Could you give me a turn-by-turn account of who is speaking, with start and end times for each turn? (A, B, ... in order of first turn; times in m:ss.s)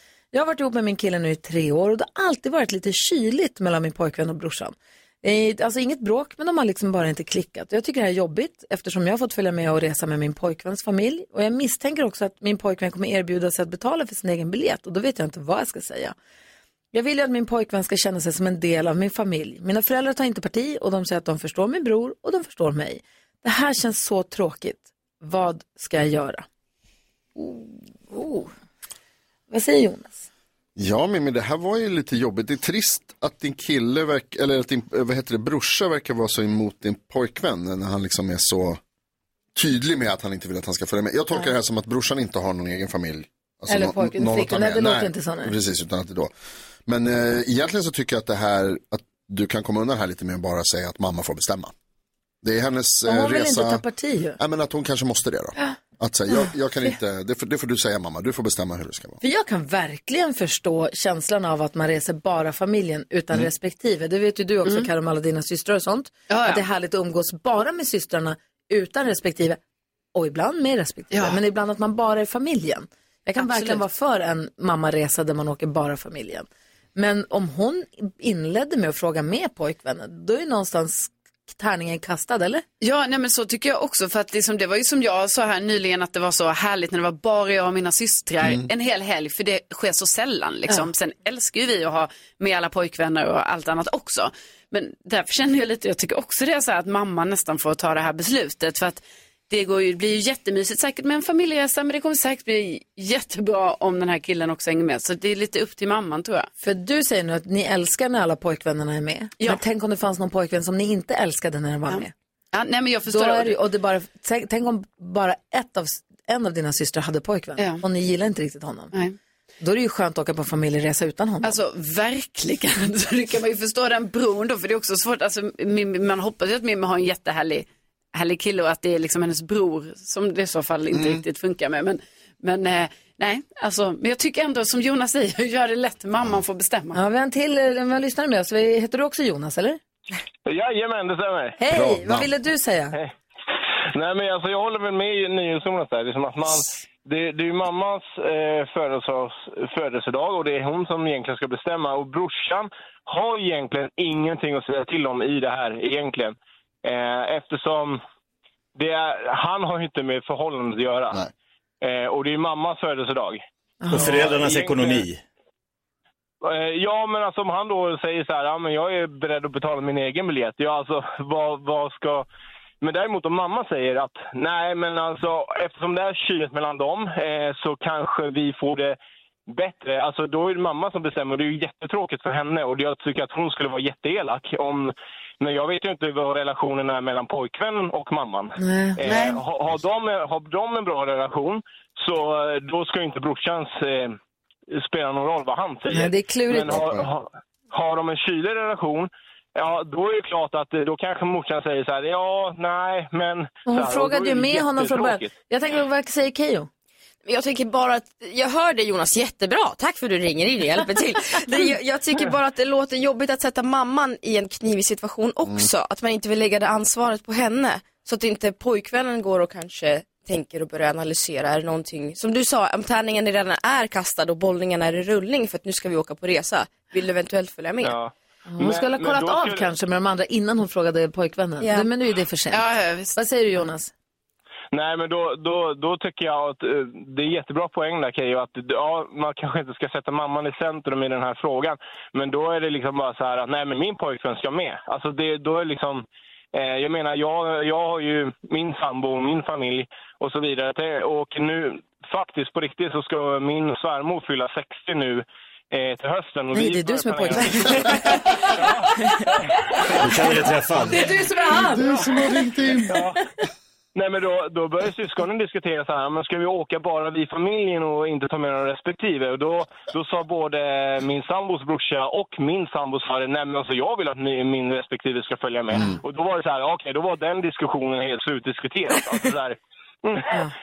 0:00.3-0:16.2 A
0:16.9-0:26.5 A
0:27.4-0:28.5 A
0:29.5-0:30.3 A
0:30.8-0:38.8 B
0:39.6-0:46.3 B
0:43.7-0:45.5 A
0:46.9-0:51.7 B
0:52.4-0:53.8 B
0:53.1-0:54.4 A
0:54.4-0:59.2 B
0:59.2-1:09.6 A
1:06.3-1:06.6 C
1:10.2-1:22.6 A
1:11.1-1:11.4 C
1:13.4-1:13.8 C
1:22.8-1:46.5 C
1:28.4-1:28.7 B
1:46.6-1:52.1 A
1:51.9-1:53.6 C
1:53.1-1:58.9 A
1:59.6-2:01.6 A
2:01.4-2:17.0 C
2:10.9-2:11.2 B
2:16.9-2:19.8 A
2:20.5-2:21.6 D
2:21.6-2:23.0 A
2:21.7-2:22.3 B
2:23.9-2:38.0 D
2:38.8-2:41.2 D
2:41.8-2:43.4 D
2:43.8-2:44.2 A
2:43.9-2:45.2 E
2:44.0-2:45.1 D
2:46.4-2:52.3 D
2:52.8-2:59.0 D
2:59.5-3:14.2 D
3:08.6-3:09.4 A
3:14.7-3:25.3 D
3:15.9-3:16.9 A
3:16.7-3:17.1 B
3:23.7-3:26.7 A
3:27.2-3:47.9 F
3:47.8-3:49.7 D
3:48.5-3:53.9 A
3:51.6-3:51.9 F
3:52.5-3:53.2 C
3:54.7-4:18.0 D
4:16.5-4:18.4 A
4:18.6-4:18.8 D
4:20.0-4:21.1 E
4:20.9-4:22.1 A
4:21.5-4:23.0 B
4:22.9-4:23.2 D
4:24.0-4:40.3 D
4:35.7-4:36.0 B